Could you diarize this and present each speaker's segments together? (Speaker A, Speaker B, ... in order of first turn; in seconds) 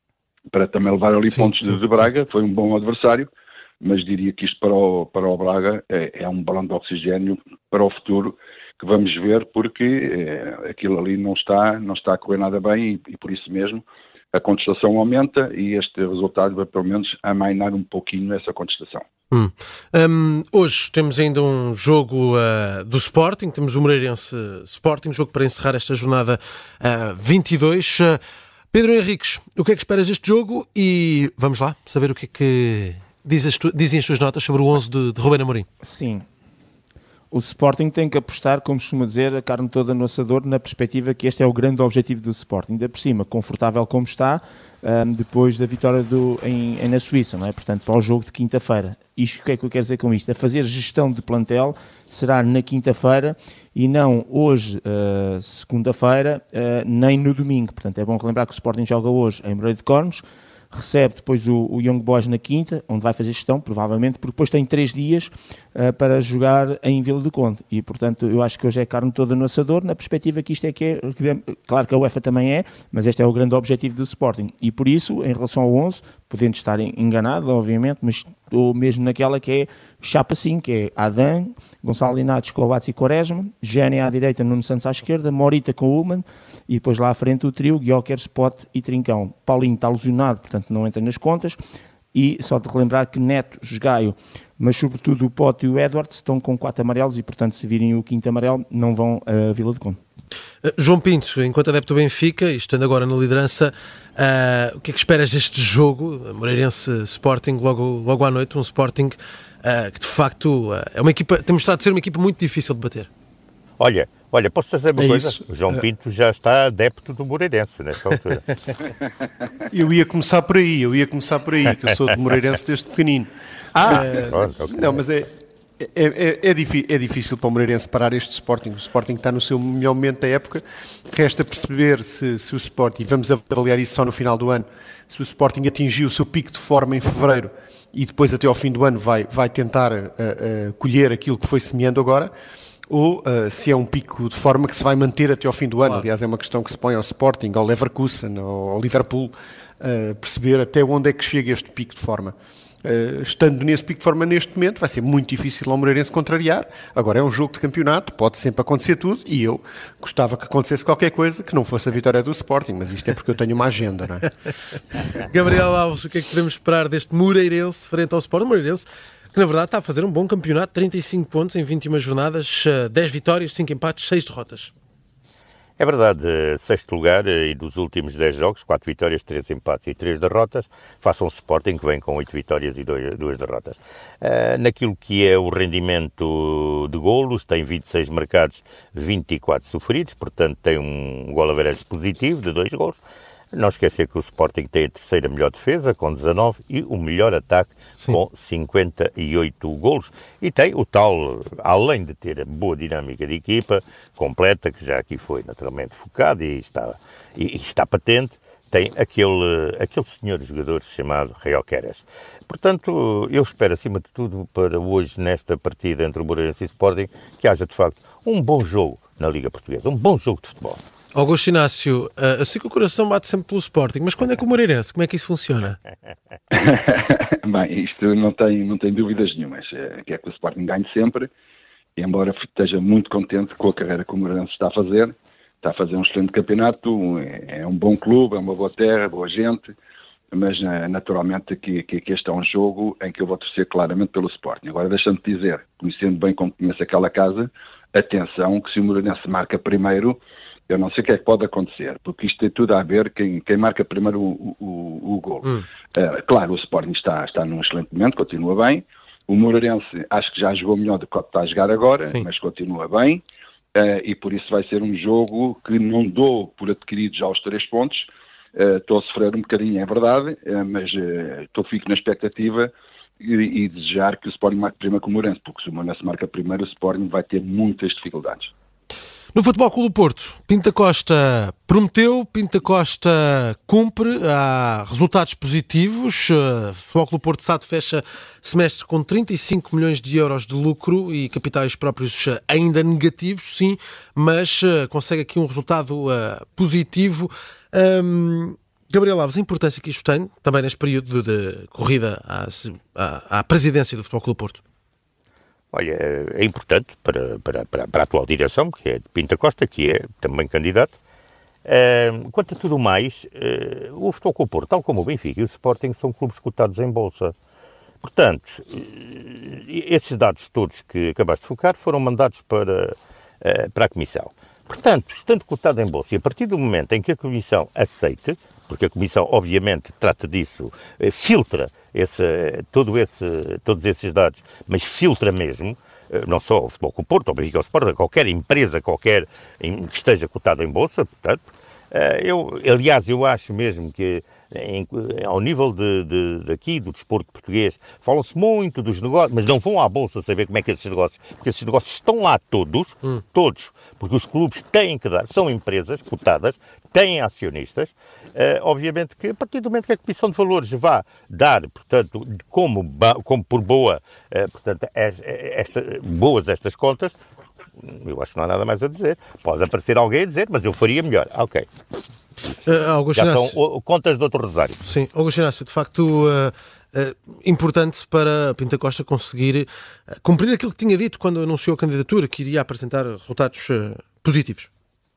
Speaker A: 0.5-19.1, 226.5-231.3, 232.0-239.8, 240.3-278.5
Speaker B: 19.3-28.2, 28.7-35.7, 100.6-113.1, 165.2-174.7, 221.1-225.8, 279.3-304.6, 372.6-373.6, 374.9-384.7
Speaker C: 35.8-36.2, 37.3-91.6, 92.1-100.0
Speaker D: 113.8-118.5, 123.8-124.8, 175.8-193.0, 193.5-220.8, 305.7-310.9, 311.6-317.3, 318.0-367.2, 367.8-371.7, 373.1-374.8
Speaker E: 115.0-115.8, 119.7-125.3, 125.8-142.3, 142.9-164.3